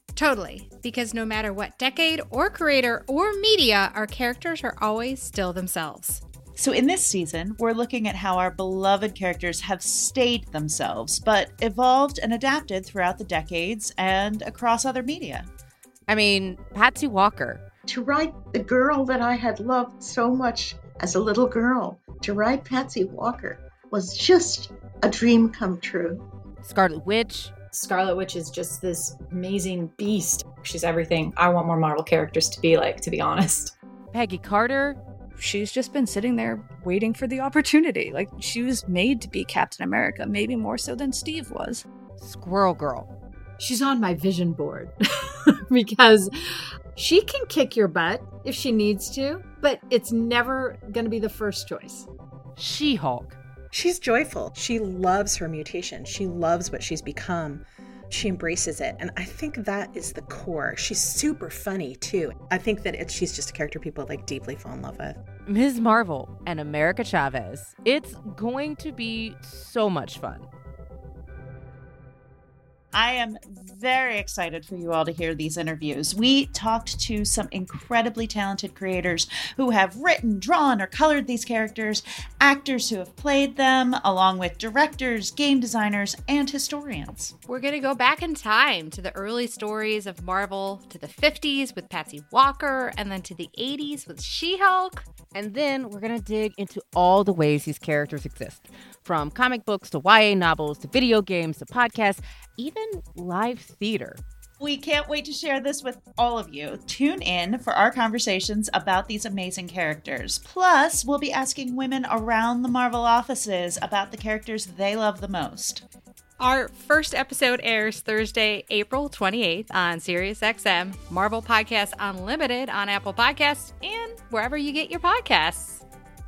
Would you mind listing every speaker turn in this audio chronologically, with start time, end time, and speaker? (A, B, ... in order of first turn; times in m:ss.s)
0:00.1-0:06.2 A
0:06.6-0:15.5 B
0:16.1-0:17.6 C
0:17.9-0:26.2 D
0:26.6-0:27.5 C
0:27.7-0:33.7 E
0:34.1-0:35.0 C
0:35.4-0:41.8 F
0:42.2-0:43.1 C
0:43.6-0:44.9 G
0:45.7-0:46.3 G
0:47.0-0:52.1 G
0:52.6-0:53.4 C
0:53.7-1:05.2 H
1:05.5-1:10.5 C
1:12.9-1:27.3 B
1:27.5-1:35.1 A
1:35.3-1:44.2 C
1:44.6-1:55.8 B
1:56.4-2:05.8 A